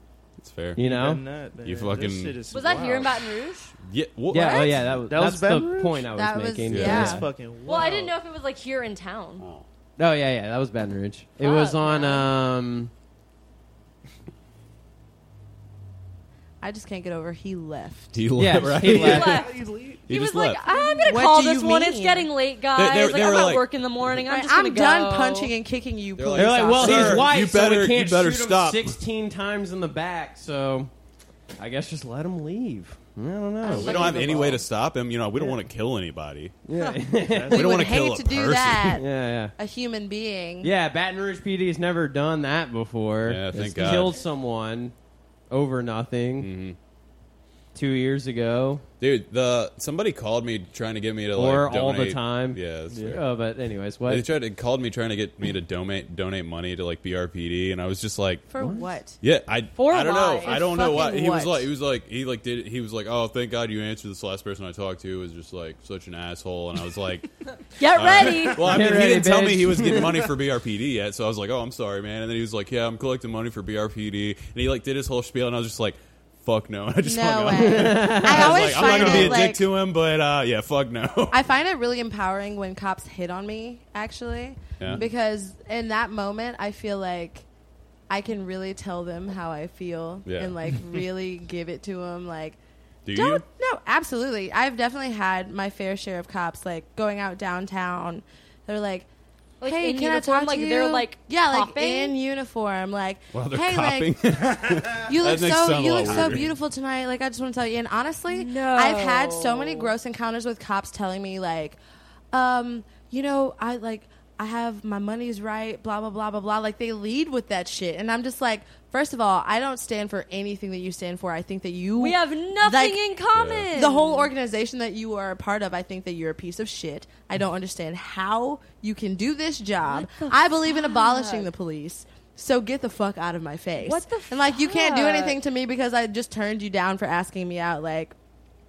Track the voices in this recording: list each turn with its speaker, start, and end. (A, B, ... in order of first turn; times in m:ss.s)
0:00.4-0:00.8 A
0:00.8-0:01.2 B
0:00.8-0:03.2 C
0:01.6-0:02.4 A
0:02.5-0:03.7 D
0:03.8-0:05.0 A
0:04.3-0:07.3 B
0:04.4-0:04.6 D
0:05.1-0:06.1 C
0:06.1-0:07.2 E
0:06.7-0:07.2 A
0:06.8-0:08.1 C
0:07.6-0:09.4 D
0:10.0-0:12.9 B
0:11.4-0:12.3 D
0:16.6-0:18.2 E
0:18.1-0:19.4 A
0:18.4-0:19.4 B
0:18.8-0:20.0 C
0:19.0-0:25.5 D
0:20.1-0:20.6 A
0:21.0-0:22.3 E
0:22.7-0:23.6 A
0:24.2-0:27.3 E
0:26.2-0:29.0 A
0:26.3-0:30.9 B
0:31.6-0:34.6 B
0:33.6-0:34.4 E
0:33.6-0:36.6 A
0:33.7-0:34.6 D
0:36.7-0:37.6 B
0:36.8-0:40.7 E
0:37.2-0:37.6 C
0:37.5-0:39.0 A
0:38.9-0:39.5 B
0:40.6-0:44.9 B
0:43.2-0:44.2 A
0:45.5-0:46.5 B
0:46.4-0:46.8 A
0:47.7-0:48.8 B
0:49.0-0:53.2 A
0:51.3-0:54.2 B
0:52.9-0:53.2 C
0:54.0-0:58.4 A
0:58.5-0:59.2 E
0:58.6-0:58.9 B
0:59.2-1:07.3 A
0:59.8-1:00.6 D
1:00.4-1:01.7 E
1:07.7-1:08.6 D
1:07.8-1:21.4 A
1:08.6-1:10.2 B
1:17.0-1:19.7 E
1:17.5-1:19.4 B
1:21.3-1:27.4 E
1:24.8-1:25.0 A
1:28.1-1:32.6 E
1:30.2-1:30.8 A
1:33.0-1:33.4 A
1:33.1-1:39.1 E
1:39.6-1:42.2 D
1:39.6-1:44.1 E
1:43.3-1:46.4 A
1:44.9-1:51.8 E
1:46.0-1:46.5 C
1:48.3-1:49.9 D
1:52.3-2:03.0 E
2:02.0-2:04.3 D
2:03.3-2:03.7 A
2:03.7-2:18.1 E
2:09.9-2:11.5 D
2:13.8-2:15.4 D